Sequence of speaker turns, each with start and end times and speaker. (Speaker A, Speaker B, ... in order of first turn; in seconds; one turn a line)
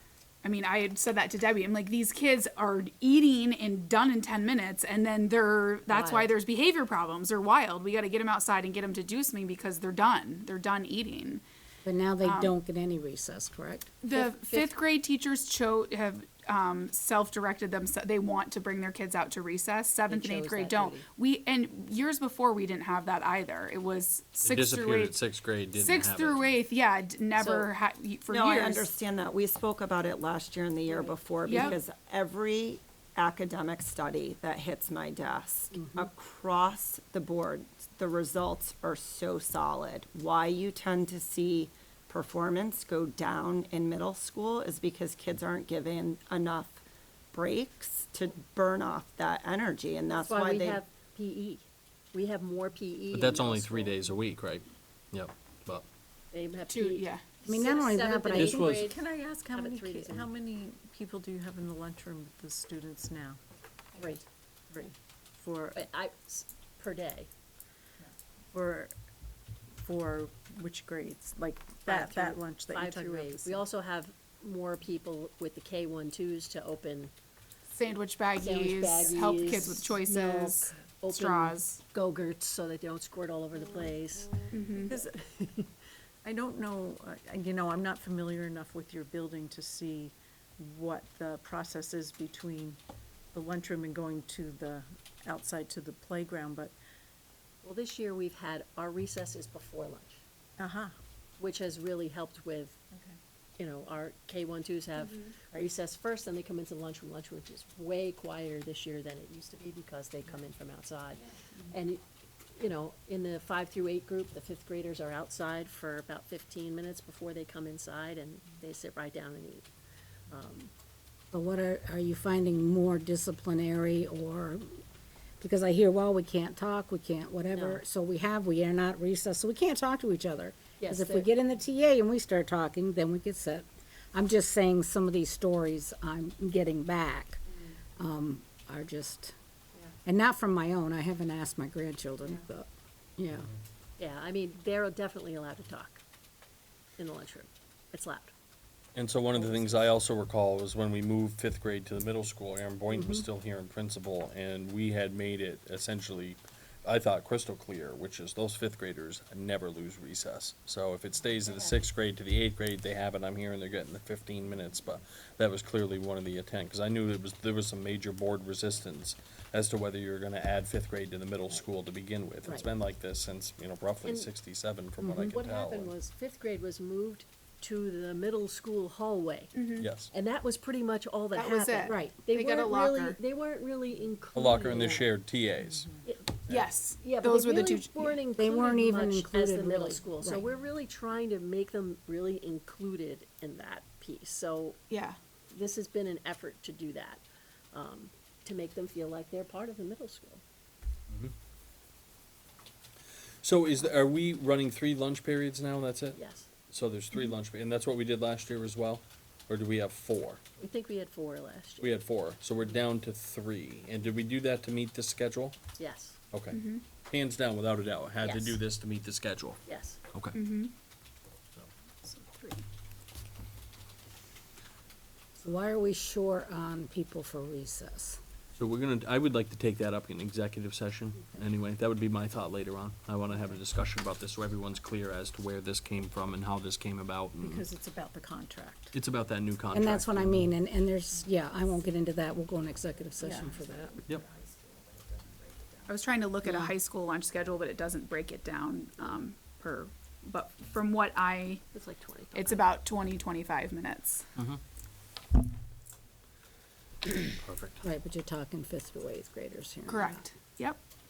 Speaker A: 0.4-11.4
Speaker B: 5.9-6.3
Speaker C: 11.8-13.9
Speaker A: 12.2-12.6
Speaker A: 14.0-25.2
Speaker B: 14.1-14.8
Speaker B: 20.1-21.1
Speaker D: 24.4-26.6
Speaker A: 25.7-28.9
Speaker B: 27.4-27.7
Speaker E: 28.3-46.8
Speaker B: 30.9-31.8
Speaker A: 31.5-31.8
Speaker C: 35.7-36.1
Speaker E: 47.3-50.8
Speaker B: 50.2-54.0
Speaker D: 53.1-55.9
Speaker B: 56.3-60.3
Speaker A: 56.7-57.3
Speaker C: 57.5-58.8
Speaker D: 58.4-58.9
Speaker F: 58.8-63.4
Speaker B: 64.0-64.2
Speaker F: 64.7-65.8
Speaker B: 65.7-67.3
Speaker F: 68.5-68.9
Speaker F: 69.8-73.7
Speaker B: 71.8-77.1
Speaker A: 77.7-81.8
Speaker B: 78.4-85.7
Speaker A: 84.5-84.9
Speaker F: 84.8-85.2
Speaker F: 86.2-92.8
Speaker F: 93.3-96.7
Speaker B: 97.6-100.2
Speaker F: 100.6-101.0
Speaker B: 101.4-102.8
Speaker B: 103.6-112.0
Speaker B: 112.5-119.7
Speaker B: 120.3-120.7
Speaker C: 121.3-124.8
Speaker C: 125.4-137.4
Speaker B: 127.5-127.8
Speaker B: 130.8-131.3
Speaker C: 138.0-139.3
Speaker C: 140.0-143.5
Speaker B: 144.0-146.0
Speaker B: 147.0-148.3
Speaker D: 148.9-175.9
Speaker B: 149.3-149.8
Speaker C: 152.9-153.3
Speaker B: 174.1-174.3
Speaker C: 175.0-175.4
Speaker B: 175.3-185.1
Speaker A: 179.6-179.9
Speaker D: 179.8-180.1
Speaker A: 181.3-183.2
Speaker C: 181.9-182.1
Speaker D: 184.3-185.9
Speaker F: 185.7-186.0
Speaker B: 186.1-194.8
Speaker A: 186.5-188.2
Speaker C: 188.4-190.4
Speaker A: 194.9-195.2
Speaker B: 195.5-200.4
Speaker D: 203.4-206.2
Speaker B: 206.1-206.5
Speaker D: 206.7-210.4
Speaker B: 210.6-211.9
Speaker D: 211.8-215.6
Speaker B: 215.8-216.2
Speaker D: 216.3-219.6
Speaker A: 216.5-216.8
Speaker B: 218.2-218.6
Speaker B: 219.7-220.0
Speaker D: 220.1-220.4
Speaker A: 220.3-220.7
Speaker A: 222.0-222.6
Speaker C: 225.4-228.2
Speaker D: 228.6-237.7
Speaker F: 237.4-238.9
Speaker D: 238.9-240.5
Speaker C: 239.7-244.0
Speaker F: 243.2-243.5
Speaker A: 245.9-251.6
Speaker B: 251.7-252.7
Speaker A: 252.3-254.2
Speaker D: 254.4-254.6
Speaker D: 257.4-257.8
Speaker C: 257.8-260.3
Speaker A: 259.9-260.8